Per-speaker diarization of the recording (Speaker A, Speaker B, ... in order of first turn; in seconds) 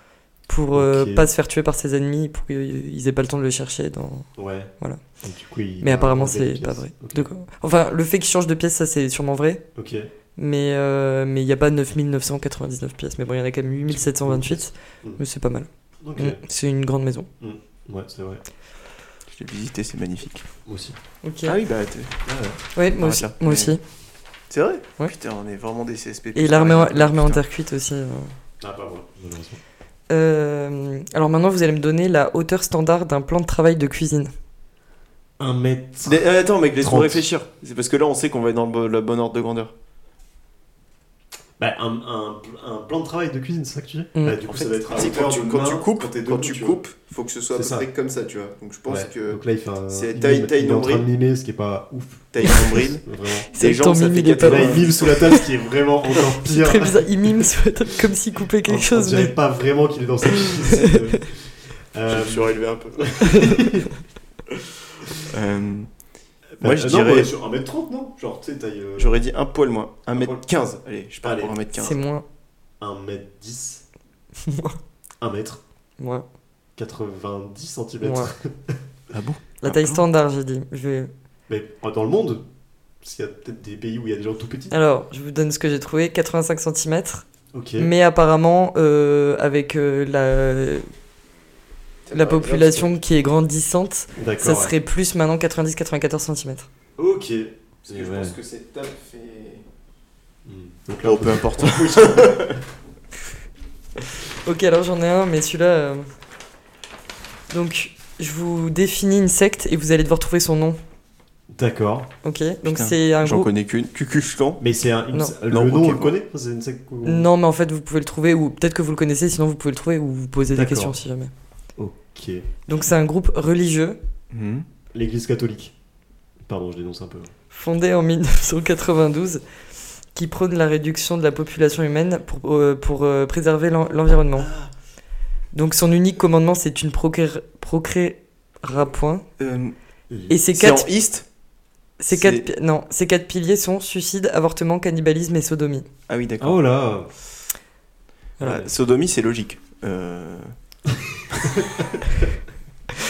Speaker A: 0.5-4.3, 5.8-9.6, 10.4-17.3, 21.2-21.6, 22.8-23.8, 26.4-28.3, 30.1-34.3, 44.1-44.4, 53.5-55.5, 56.2-59.3, 60.4-61.2, 63.3-63.7, 71.8-72.2, 74.4-74.8, 76.0-76.2, 78.0-78.3, 79.6-81.1, 84.7-87.2, 87.8-90.9, 92.1-96.7, 104.4-106.1, 107.5-110.8, 112.2-113.5, 117.0-121.3, 122.7-124.0, 127.5-129.4, 130.1-134.5, 135.5-139.2, 140.3-140.9, 142.0-145.8, 148.4-148.7
Speaker B: 0.7-1.3, 4.4-4.7, 5.2-7.3, 9.8-10.1, 13.9-15.2, 16.0-16.4, 17.4-18.4, 20.7-21.0, 22.2-22.6, 28.6-29.6, 35.4-36.2, 36.8-37.3, 41.6-46.8, 47.5-47.9, 48.9-53.5, 54.4-57.4, 58.6-63.9, 66.6-69.2, 70.1-70.5, 71.2-71.6, 72.8-73.8, 75.2-75.6, 76.8-78.8, 81.5-82.4, 83.0-84.8, 87.5-87.9, 94.2-94.8, 97.0-98.4, 100.5-102.5, 111.5-112.1, 114.6-117.3, 120.5-121.0, 121.8-122.5, 124.9-125.7, 126.5-127.3, 140.1-140.4, 146.4-147.1
Speaker C: 19.3-20.5, 21.4-22.1, 23.0-23.8, 24.5-27.4, 36.1-39.7, 44.5-51.1, 52.3-55.4, 62.1-63.5, 65.3-65.9, 66.6-67.3, 69.0-72.0, 79.1-80.0, 92.1-93.0, 97.9-99.7, 101.0-102.6, 112.6-114.6, 115.5-116.1, 124.3-124.7, 134.4-134.7, 139.4-139.8, 140.5-141.3, 142.1-142.5, 146.1-146.6, 148.4-150.6